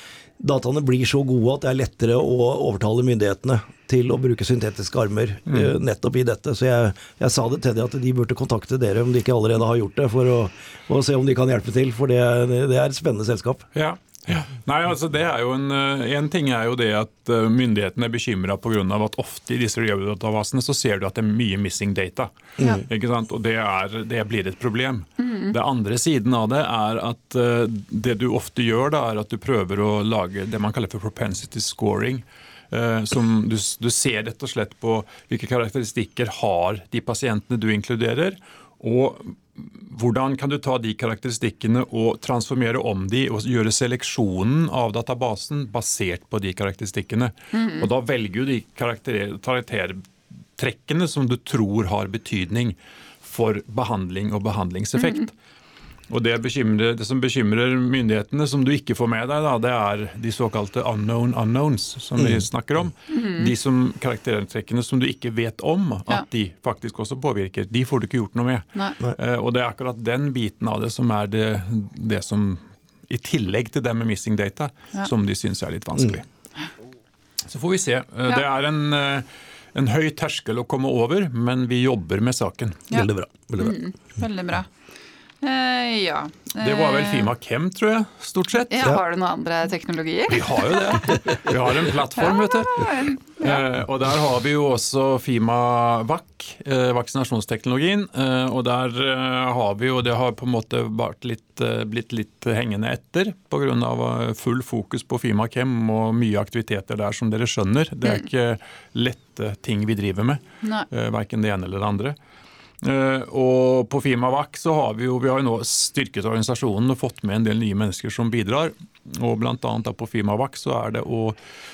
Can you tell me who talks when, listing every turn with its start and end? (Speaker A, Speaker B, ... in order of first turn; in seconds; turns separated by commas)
Speaker A: 0.4-13.7, Speaker B: 13.7-55.3, Speaker A: 22.6-22.8, Speaker C: 25.2-25.6, Speaker C: 47.5-47.9, Speaker C: 55.0-55.2, Speaker B: 56.1-76.2, Speaker A: 62.2-62.4, Speaker C: 63.1-63.5, Speaker B: 77.5-82.9, Speaker C: 82.9-84.7, Speaker A: 82.9-83.8, Speaker C: 85.4-87.3, Speaker B: 86.6-88.9, Speaker C: 88.7-91.3, Speaker B: 90.3-112.2, Speaker C: 92.2-93.6, Speaker B: 112.8-121.4